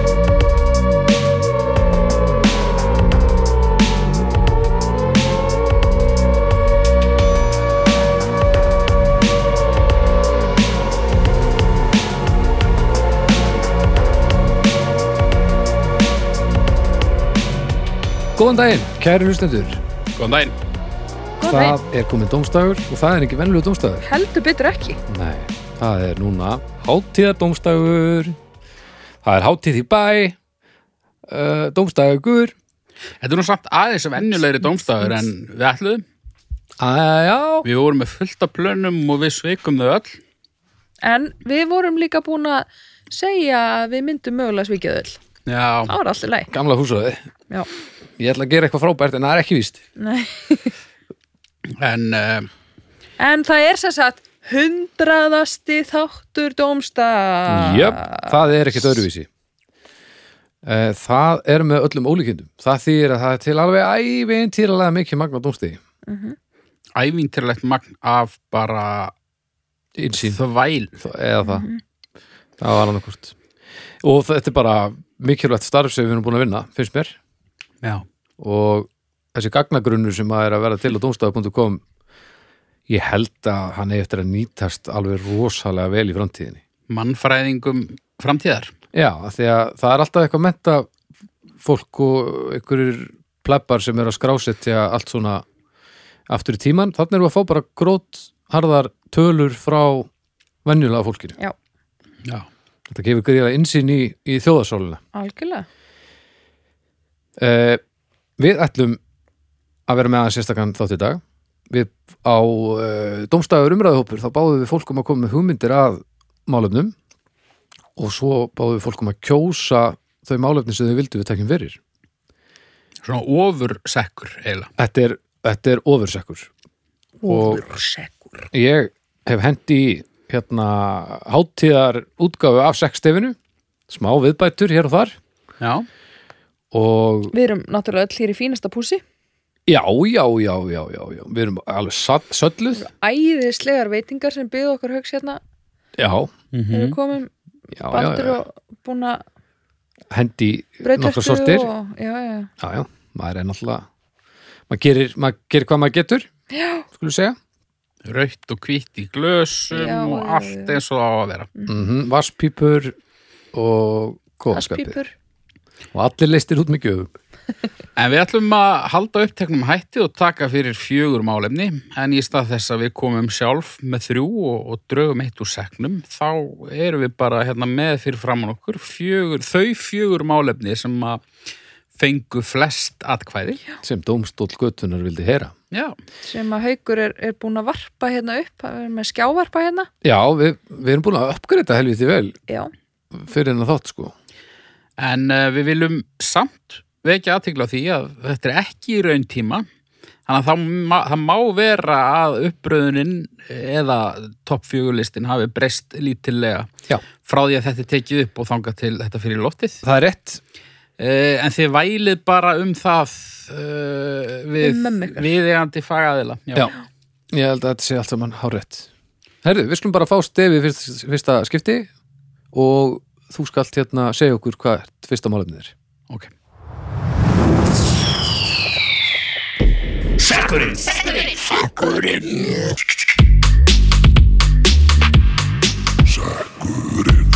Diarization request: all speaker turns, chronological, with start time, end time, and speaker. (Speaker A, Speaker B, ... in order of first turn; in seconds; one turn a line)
Speaker A: 18.4-19.8
Speaker B: 20.1-20.6
Speaker C: 21.4-21.8
Speaker A: 21.4-24.1
Speaker C: 24.0-25.0
Speaker A: 25.1-28.4
Speaker A: 29.2-30.4
Speaker A: 31.3-32.5
Speaker B: 33.2-36.0
Speaker C: 34.2-35.2
Speaker A: 36.8-37.6
Speaker B: 37.6-40.2
Speaker C: 41.0-45.2
Speaker B: 45.5-45.9
Speaker C: 45.9-46.5
Speaker A: 46.5-47.2
Speaker A: 48.2-49.8
Speaker C: 50.0-50.7
Speaker B: 51.8-52.5
Speaker C: 53.2-58.3
Speaker A: 57.5-59.3
Speaker A: 60.6-65.8
Speaker C: 66.1-66.4
Speaker B: 67.0-69.1
Speaker A: 70.0-70.4
Speaker B: 70.2-70.9
Speaker A: 71.0-71.7
Speaker C: 71.4-71.8
Speaker A: 72.6-73.3
Speaker A: 74.0-77.2
Speaker A: 78.4-81.8
Speaker A: 82.9-86.6
Speaker B: 86.9-88.7
Speaker A: 88.9-90.9
Speaker A: 91.6-95.4
Speaker A: 96.3-100.1
Speaker A: 100.7-101.4
Speaker A: 102.9-105.0
Speaker C: 105.1-105.7
Speaker A: 107.4-107.8
Speaker A: 108.4-109.0
Speaker A: 109.9-117.0
Speaker A: 118.0-121.8
Speaker B: 123.0-124.7
Speaker A: 124.8-126.5
Speaker C: 127.2-128.5
Speaker A: 127.3-127.7
Speaker A: 128.5-133.4
Speaker A: 133.9-135.2
Speaker B: 135.6-135.9
Speaker A: 136.7-137.3
Speaker C: 137.3-139.0
Speaker A: 139.7-142.9
Speaker C: 142.8-145.4
Speaker A: 146.0-146.3
Speaker B: 146.5-147.0
Speaker C: 146.7-147.3
Speaker A: 147.7-148.4
Speaker C: 147.9-149.2
Speaker A: 150.1-151.7
Speaker C: 150.8-152.5
Speaker A: 152.6-153.9
Speaker A: 154.7-156.3
Speaker C: 156.5-156.9
Speaker A: 156.9-157.4
Speaker B: 158.1-161.5
Speaker C: 159.7-160.8
Speaker A: 161.7-162.9
Speaker A: 163.5-165.0
Speaker C: 164.5-165.1
Speaker A: 165.9-167.1
Speaker B: 168.0-181.2
Speaker B: 182.0-183.6
Speaker A: 183.8-185.5
Speaker C: 186.2-189.9
Speaker A: 190.0-192.4
Speaker A: 193.1-194.2
Speaker B: 195.0-199.7
Speaker B: 200.3-206.7
Speaker B: 207.2-209.8
Speaker A: 209.8-210.4
Speaker B: 211.0-216.7
Speaker C: 214.6-215.3
Speaker A: 217.3-218.9
Speaker A: 219.4-221.9
Speaker A: 222.5-225.7
Speaker B: 230.2-232.7